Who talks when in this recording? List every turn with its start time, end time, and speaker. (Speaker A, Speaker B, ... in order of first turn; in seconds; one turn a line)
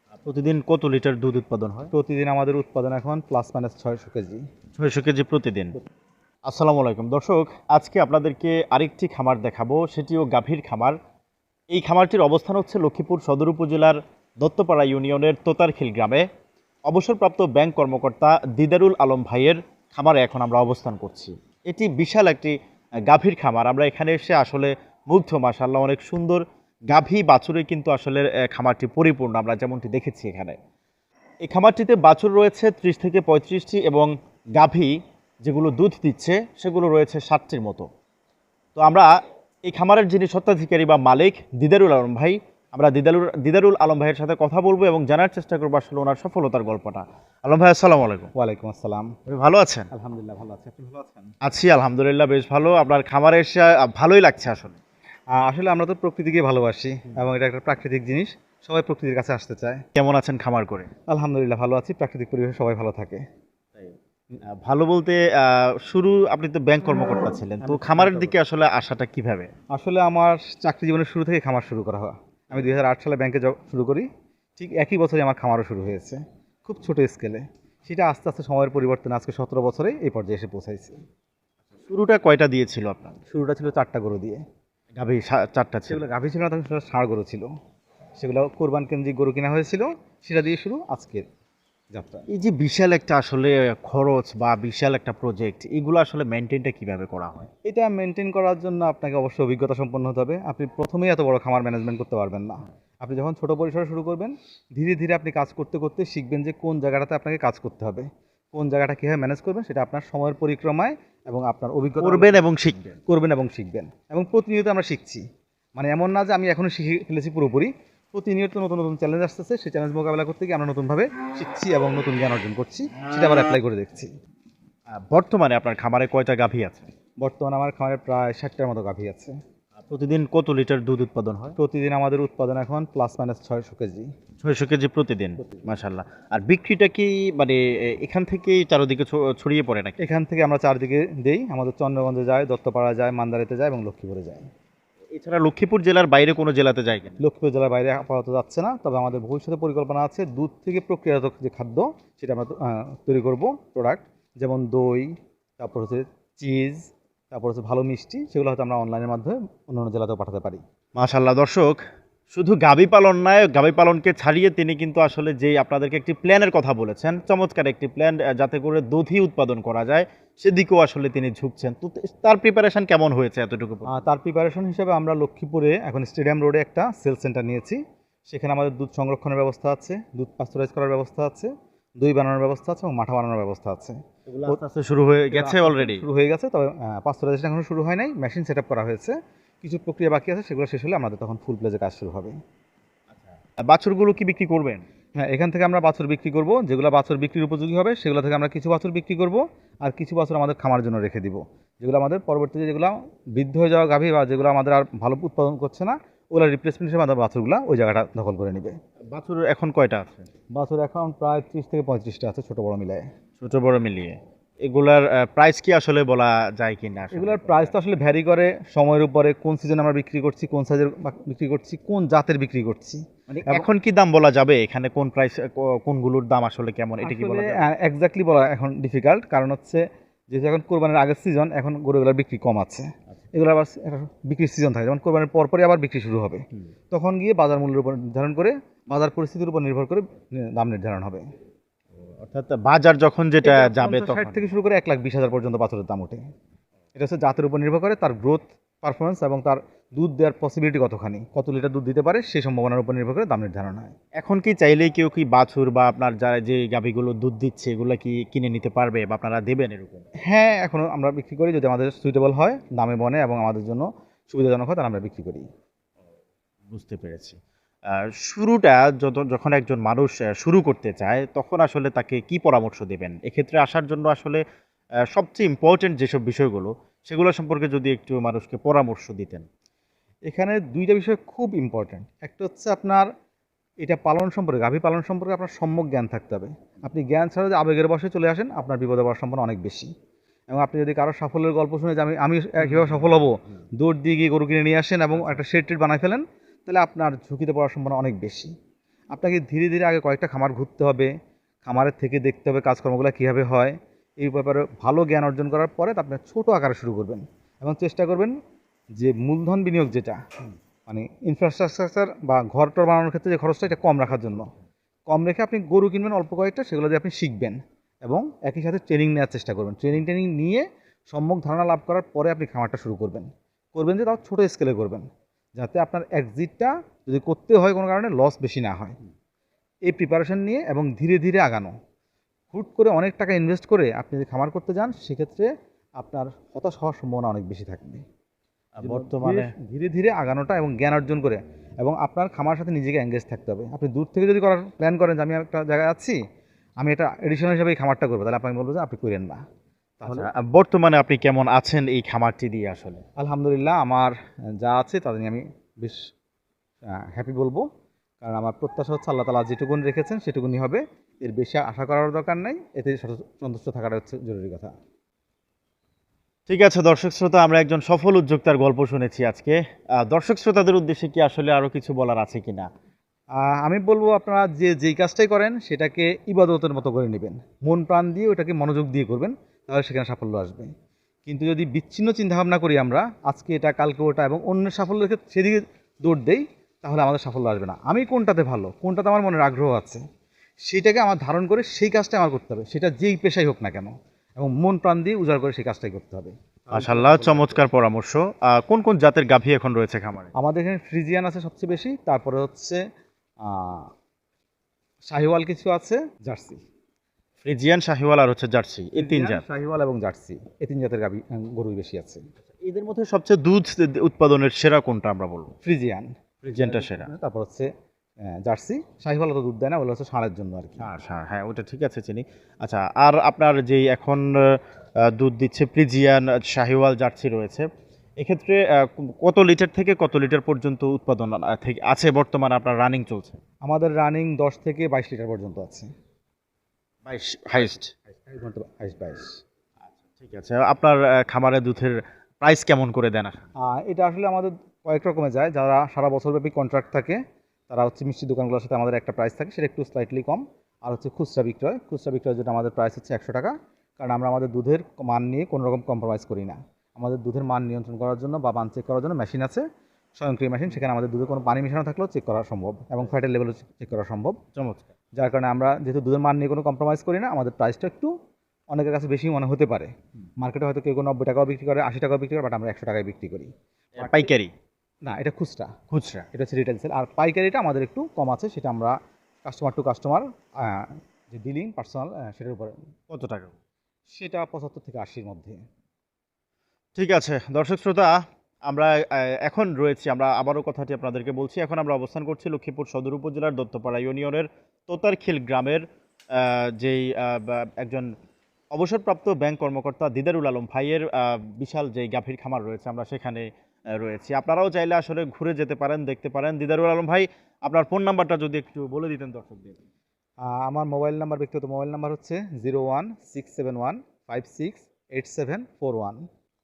Speaker A: 0.1-1.9
Speaker B: 1.9-4.5
Speaker A: 4.8-5.8
Speaker A: 6.4-11.0
Speaker A: 11.7-16.3
Speaker A: 16.9-30.6
Speaker A: 31.4-37.9
Speaker A: 38.8-39.1
Speaker A: 39.6-48.3
Speaker B: 48.3-49.1
Speaker A: 49.3-49.9
Speaker B: 49.9-51.3
Speaker A: 51.4-54.8
Speaker B: 55.3-59.8
Speaker A: 60.0-60.9
Speaker B: 61.1-63.2
Speaker A: 64.4-69.5
Speaker B: 67.6-68.3
Speaker B: 69.7-81.0
Speaker A: 81.9-83.2
Speaker B: 83.3-84.4
Speaker A: 84.9-86.0
Speaker B: 85.9-87.5
Speaker B: 88.2-91.2
Speaker B: 91.9-92.2
Speaker A: 92.3-97.5
Speaker B: 97.6-112.4
Speaker A: 112.0-113.0
Speaker B: 113.0-115.2
Speaker B: 115.8-124.1
Speaker A: 124.9-126.9
Speaker B: 127.2-129.4
Speaker A: 129.8-131.6
Speaker B: 131.6-134.1
Speaker A: 134.4-140.0
Speaker B: 140.0-144.5
Speaker A: 145.1-147.2
Speaker B: 147.2-160.6
Speaker A: 160.9-161.8
Speaker A: 162.3-174.0
Speaker B: 173.9-184.6
Speaker A: 184.3-186.0
Speaker B: 185.3-192.3
Speaker A: 193.1-194.8
Speaker B: 195.1-208.8
Speaker A: 209.1-210.3
Speaker B: 210.5-213.1
Speaker A: 213.4-217.7
Speaker B: 217.1-223.6
Speaker A: 223.3-227.7
Speaker B: 227.0-241.2
Speaker A: 242.2-244.5
Speaker B: 243.4-246.2
Speaker B: 246.9-253.9
Speaker A: 254.2-260.1
Speaker B: 260.2-265.4
Speaker A: 266.7-274.4
Speaker A: 275.1-279.4
Speaker B: 280.3-283.1
Speaker B: 283.8-289.9
Speaker B: 290.5-298.5
Speaker B: 299.1-301.1
Speaker B: 301.6-308.3
Speaker B: 308.9-310.3
Speaker B: 310.9-314.5
Speaker B: 315.1-328.9
Speaker B: 329.8-331.7
Speaker B: 332.5-335.5
Speaker B: 336.0-338.0
Speaker A: 338.8-339.5
Speaker B: 338.8-346.2
Speaker B: 346.8-349.4
Speaker B: 350.0-350.3
Speaker A: 350.1-353.0
Speaker B: 353.2-356.1
Speaker B: 356.9-357.6
Speaker B: 358.2-364.7
Speaker A: 366.5-372.7
Speaker B: 373.4-380.7
Speaker B: 381.3-390.0
Speaker B: 390.6-397.6
Speaker A: 396.7-400.3
Speaker B: 400.3-402.8
Speaker B: 403.4-403.9
Speaker B: 405.1-406.6
Speaker A: 407.4-409.4
Speaker B: 408.9-412.2
Speaker A: 412.6-415.5
Speaker B: 415.6-417.7
Speaker A: 416.4-417.1
Speaker B: 418.2-420.9
Speaker A: 420.8-427.7
Speaker A: 428.2-433.4
Speaker B: 433.6-435.9
Speaker A: 437.1-437.9
Speaker B: 438.1-439.4
Speaker A: 440.1-443.4
Speaker B: 443.6-459.6
Speaker B: 460.2-464.4
Speaker A: 464.5-464.8
Speaker B: 465.1-468.1
Speaker B: 468.7-474.3
Speaker A: 473.9-474.5
Speaker B: 475.0-475.7
Speaker A: 475.9-476.3
Speaker B: 476.3-482.7
Speaker A: 483.1-483.5
Speaker B: 484.1-485.6
Speaker A: 486.9-498.1
Speaker A: 498.7-509.8
Speaker B: 510.4-516.2